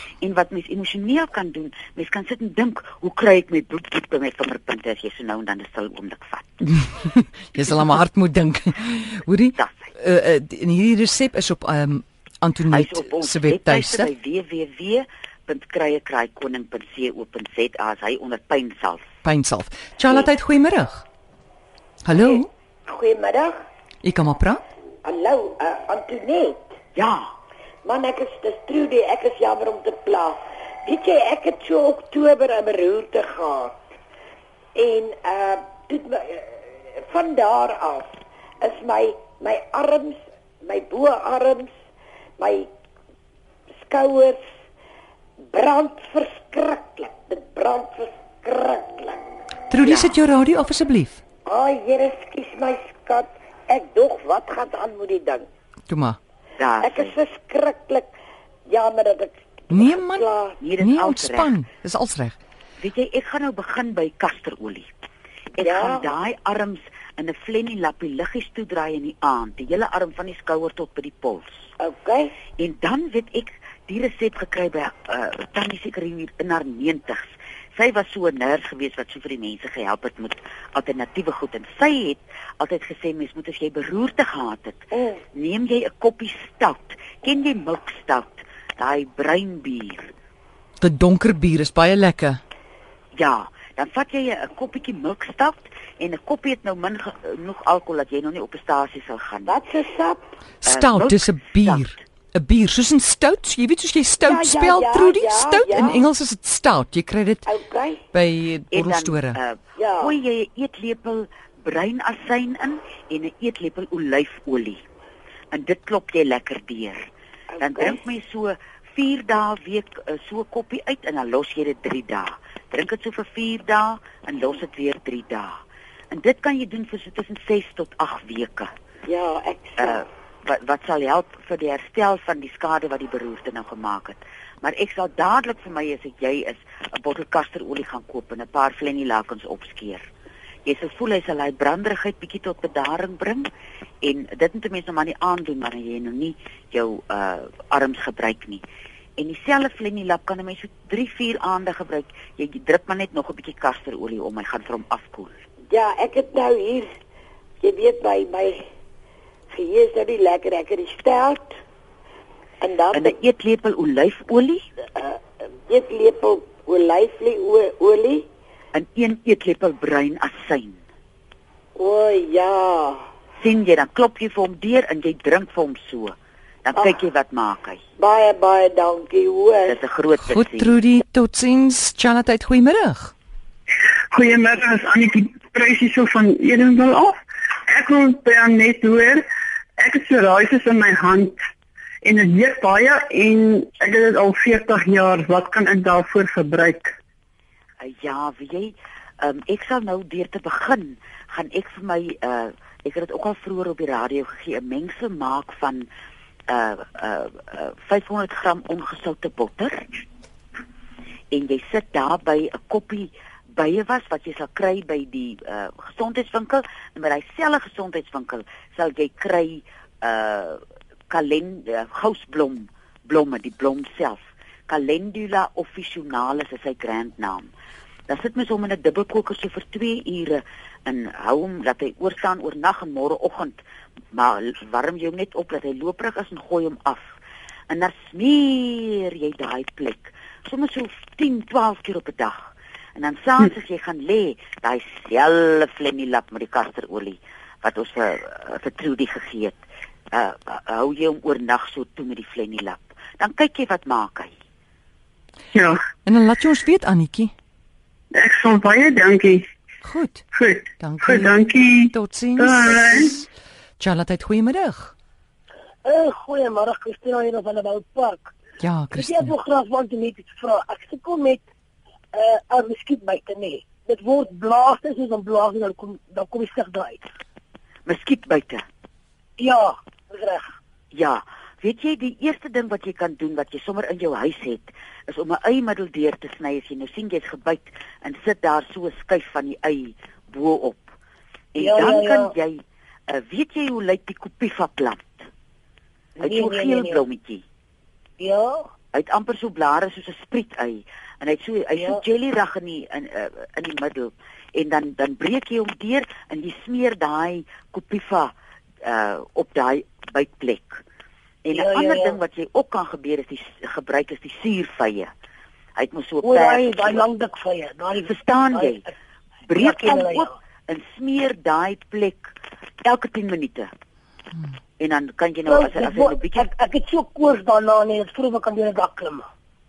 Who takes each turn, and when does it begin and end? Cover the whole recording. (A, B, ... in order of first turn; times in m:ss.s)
0:00.2-0:06.8 A
0:06.8-0:14.1 B
0:09.6-0:09.9 A
0:12.7-0:19.1 A
0:19.2-0:21.0 B
0:22.0-0:22.5 B
0:22.9-0:23.6 C
0:24.0-0:24.6 B
0:25.0-0:26.7 C
0:27.0-0:27.3 A
0:27.8-0:33.7 C
0:34.8-0:38.1 C
0:38.6-0:41.7 C
0:42.4-0:42.7 C
0:43.8-0:44.4 C
0:45.5-0:49.3 C
0:49.7-0:51.2 B
0:49.8-0:50.2 A
0:51.5-0:55.5 C
0:55.9-0:56.2 B
0:56.6-0:57.2 A
0:56.8-0:58.1 C
0:58.7-1:00.6 C
0:59.7-1:00.3 B
1:00.6-1:01.5 A
1:00.8-1:02.4 B
1:02.8-1:04.9 A
1:05.6-1:11.7 A
1:05.6-1:06.1 C
1:11.8-1:12.4 C
1:12.6-1:30.1 A
1:30.8-1:32.4 B
1:33.1-1:39.6 A
1:39.5-1:40.3 C
1:40.6-1:47.4 B
1:40.6-1:42.0 A
1:44.2-1:46.0 C
1:47.4-1:48.0 C
1:48.1-1:49.4 B
1:48.7-1:54.8 A
1:49.8-1:50.1 C
1:55.5-1:57.0 A
1:57.5-1:58.0 C
1:57.6-2:05.6 A
2:06.1-2:08.7 A
2:09.1-2:10.0 C
2:09.8-2:20.1 A
2:20.6-2:23.5 A
2:24.0-2:28.6 A
2:29.2-2:35.3 A
2:35.7-2:36.9 C
2:37.6-2:38.6 C
2:39.5-2:41.6 C
2:42.6-2:43.1 C
2:42.9-2:44.7 A
2:45.0-2:48.3 C
2:48.7-2:50.8 A
2:51.8-2:53.0 C
2:53.4-2:57.8 A
2:58.0-2:59.8 C
2:59.7-3:00.8 A
3:00.2-3:03.1 B
3:04.1-3:09.3 D
3:09.8-3:11.4 D
3:12.0-3:17.0 D
3:17.8-3:25.9 A
3:26.5-3:29.9 A
3:31.3-3:47.5 A
3:48.1-3:53.6 A
3:54.1-3:57.1 A
3:57.7-4:09.6 A
4:10.1-4:14.3 A
4:15.5-4:15.8 D
4:16.0-4:17.3 B
4:18.1-4:19.5 D
4:19.8-4:20.2 B
4:20.3-4:23.2 D
4:20.8-4:23.3 B
4:23.8-4:24.9 B
4:25.8-4:28.3 E
4:28.6-4:29.4 B
4:28.9-4:31.4 E
4:32.1-4:37.0 E
4:37.9-4:38.6 A
4:39.4-4:40.5 E
4:40.9-4:50.9 A
4:51.5-4:55.2 A
4:51.6-4:52.3 E
4:56.2-4:57.0 E
4:56.2-4:57.4 A
4:58.2-4:58.7 E
4:58.9-5:08.3 A
5:01.8-5:02.0 E
5:08.8-5:10.8 A
5:11.4-5:15.1 A
5:11.6-5:12.2 E
5:15.8-5:17.1 A
5:16.2-5:18.8 E
5:18.0-5:18.8 A
5:19.5-5:22.3 A
5:19.6-5:20.3 E
5:22.8-5:23.7 A
5:24.8-5:26.5 A
5:25.5-5:29.3 E